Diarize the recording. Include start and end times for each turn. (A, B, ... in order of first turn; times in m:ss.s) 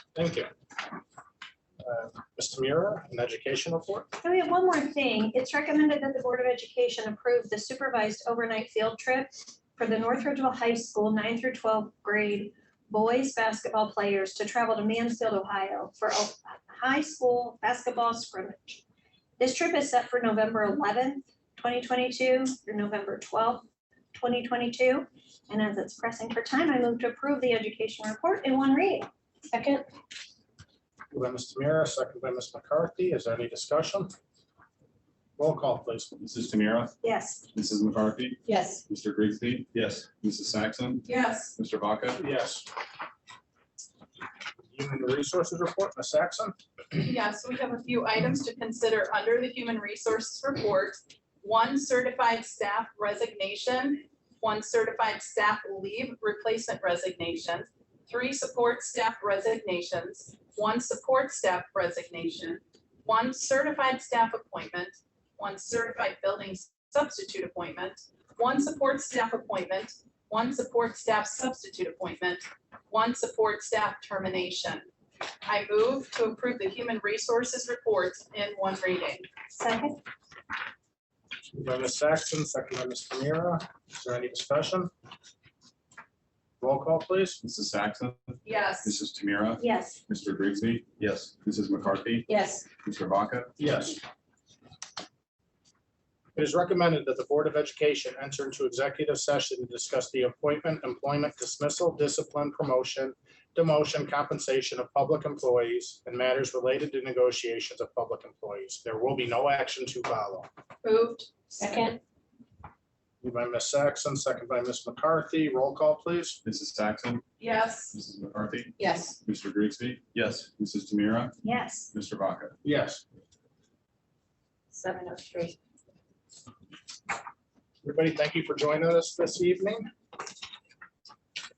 0:00.1-0:00.5 A
0:01.8-0:04.1 A
0:04.2-0:18.8 B
0:19.4-0:29.1 B
0:29.5-0:29.8 C
0:31.1-0:34.1 A
0:35.4-0:36.1 A
0:36.2-0:37.0 D
0:37.0-0:37.4 B
0:37.5-0:42.2 D
0:38.4-0:38.8 C
0:41.0-0:41.6 E
0:42.2-0:42.7 A
0:44.7-0:46.5 A
0:47.0-1:14.8 E
1:15.4-1:19.3 E
1:19.5-1:20.0 B
1:21.5-1:24.9 A
1:26.6-1:27.4 A
1:27.4-1:32.3 D
1:28.4-1:29.0 E
1:29.6-1:30.0 B
1:32.3-1:32.6 C
1:32.8-1:33.5 D
1:33.6-1:34.0 A
1:36.3-1:50.5 A
1:50.8-1:51.9 E
1:51.6-1:52.0 C
1:53.2-1:56.4 A
1:56.4-1:57.2 D
1:57.4-1:57.9 E
1:57.9-2:01.4 D
1:58.8-1:59.2 C
2:01.4-2:01.9 B
2:01.9-2:02.5 D
2:02.6-2:03.0 A
2:04.7-2:05.6 C
2:07.8-2:09.9 A